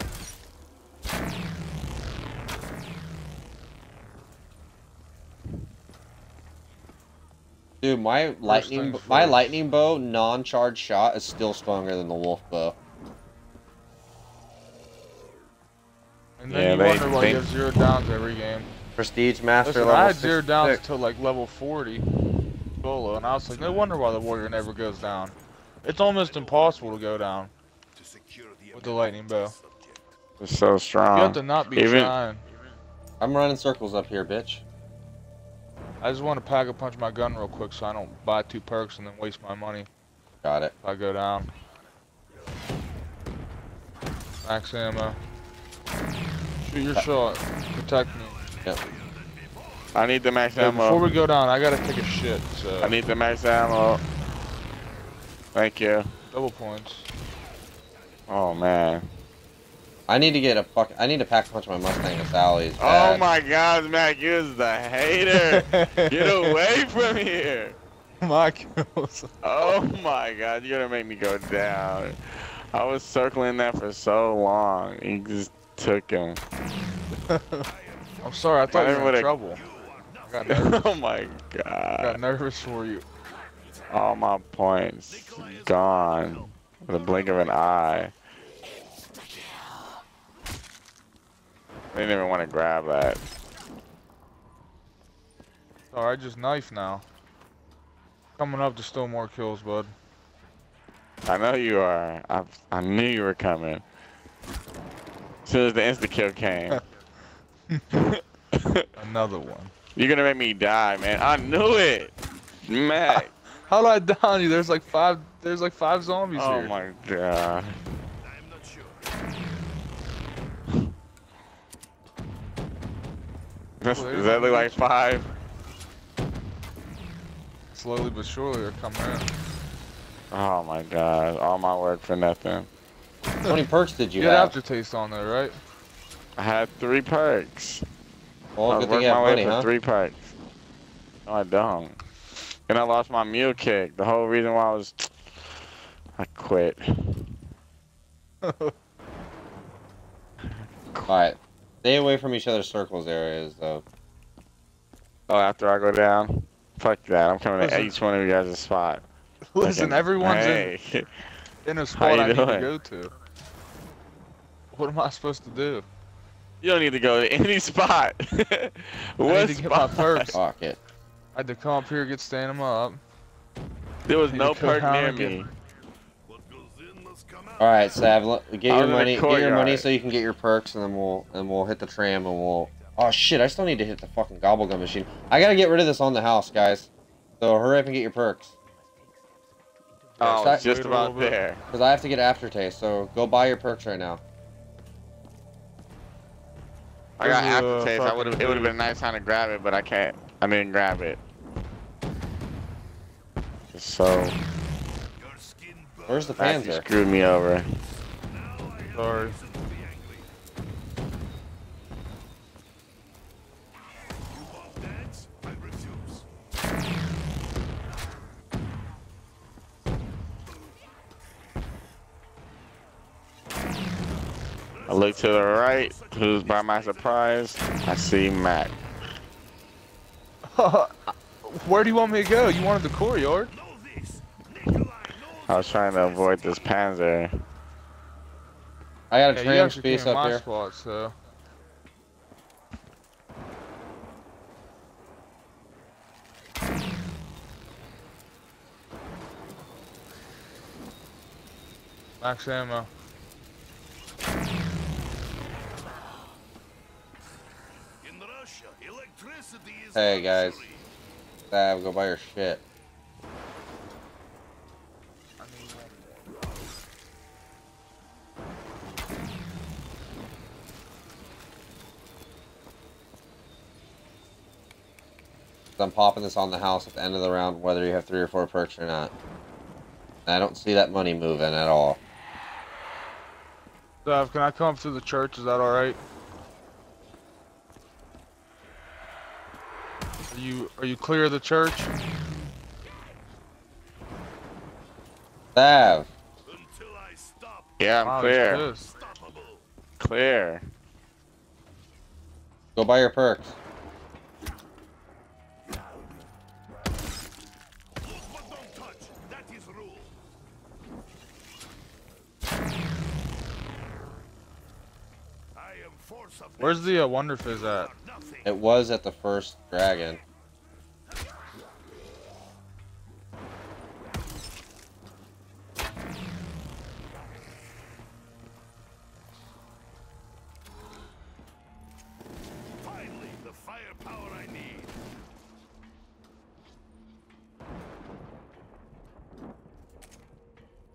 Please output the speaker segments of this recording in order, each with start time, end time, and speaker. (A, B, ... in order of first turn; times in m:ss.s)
0:07.8-0:12.8 A
0:08.4-0:09.5 B
0:16.4-0:18.7 B
0:16.5-0:17.5 C
0:19.0-0:20.8 A
0:19.6-0:22.1 B
0:22.8-0:27.5 B
0:23.5-0:27.2 D
0:28.0-0:30.2 D
0:28.7-0:29.6 B
0:30.4-0:32.1 C
0:31.1-0:32.4 B
0:33.2-0:34.6 A
0:36.0-0:39.9 B
0:40.4-0:40.7 A
0:40.8-0:41.5 B
0:44.4-0:45.2 B
0:46.6-0:48.4 B
0:48.2-0:50.0 D
0:49.9-0:51.0 C
0:50.6-0:53.0 B
0:52.8-0:54.0 C
0:55.6-0:56.1 C
0:56.3-0:57.1 B
0:58.3-0:59.1 C
1:00.1-1:03.2 A
1:02.8-1:07.8 C
1:05.3-1:06.6 B
1:08.2-1:09.3 B
1:09.4-1:16.4 C
1:17.3-1:17.7 B
1:17.5-1:18.9 D
1:18.2-1:19.6 B
1:18.7-1:19.3 C
1:19.4-1:20.7 D
1:20.3-1:20.8 B
1:20.5-1:22.2 C
1:22.0-1:23.1 B
1:23.9-1:28.1 C
1:25.1-1:27.5 D
1:31.9-1:33.2 C
1:35.9-1:37.0 B
1:38.4-1:39.9 B
1:41.3-1:43.8 C
1:45.5-1:46.8 C
1:47.7-1:48.2 B
1:48.5-1:48.9 C
1:49.0-1:49.7 B
1:50.0-1:52.1 C
1:52.6-1:53.3 C
1:53.1-1:56.7 B
1:56.3-1:57.8 C
1:58.2-1:59.7 D
2:03.8-2:05.3 C
2:03.9-2:04.9 B
2:07.7-2:09.3 B
2:10.3-2:12.7 C
2:13.5-2:14.6 A
2:14.2-2:15.6 B
2:16.4-2:17.8 C
2:18.6-2:19.7 A
2:18.7-2:20.3 C
2:21.3-2:22.0 C
2:22.7-2:25.1 C
2:26.2-2:27.3 C
2:28.4-2:28.7 B
2:31.1-2:33.8 A
2:35.3-2:39.0 C
2:37.6-2:37.9 B
2:39.5-2:40.7 B
2:39.6-2:41.1 C
2:41.6-2:43.1 B
2:42.0-2:42.7 C
2:44.7-2:45.9 B
2:46.6-2:50.4 C
2:49.2-2:50.4 B
2:50.4-2:50.8 A
2:51.4-2:53.0 B
2:54.1-2:55.5 C
2:54.3-2:55.5 B
2:56.3-2:58.2 D
2:57.6-3:06.9 A
2:58.7-2:59.9 C
3:02.6-3:03.1 D
3:07.4-3:08.5 A
3:08.4-3:10.3 D
3:10.2-3:11.6 C
3:10.2-3:11.4 B
3:10.3-3:10.7 A
3:11.7-3:14.2 A
3:17.2-3:21.2 C
3:17.2-3:18.8 B
3:23.7-3:24.4 C
3:25.2-3:26.6 D
3:26.1-3:26.8 A
3:26.4-3:27.8 C
3:28.1-3:30.4 D
3:28.9-3:29.4 B
3:34.3-3:36.2 D
3:44.7-3:47.3 D
3:44.9-3:48.8 C
3:50.5-3:53.5 B
3:53.5-3:56.8 D
3:55.5-3:57.4 C
3:59.1-4:00.4 A
3:59.3-4:01.2 B
4:12.2-4:12.9 B
4:18.0-4:20.9 D
4:20.0-4:20.7 A
4:21.5-4:22.6 A
4:25.4-4:26.0 B
4:35.8-4:39.1 A
4:40.3-4:42.0 A
4:44.0-4:46.0 B
4:50.3-4:51.9 B
4:55.6-4:56.1 A
4:56.4-4:57.9 D
4:57.8-4:58.7 C
4:58.0-4:58.9 B
4:58.8-4:59.6 D
5:00.0-5:00.6 C
5:02.8-5:03.5 A
5:05.7-5:06.2 D
5:08.0-5:10.2 D
5:15.6-5:18.5 D
5:16.6-5:17.9 B
5:18.4-5:20.2 A
5:32.8-5:35.0 D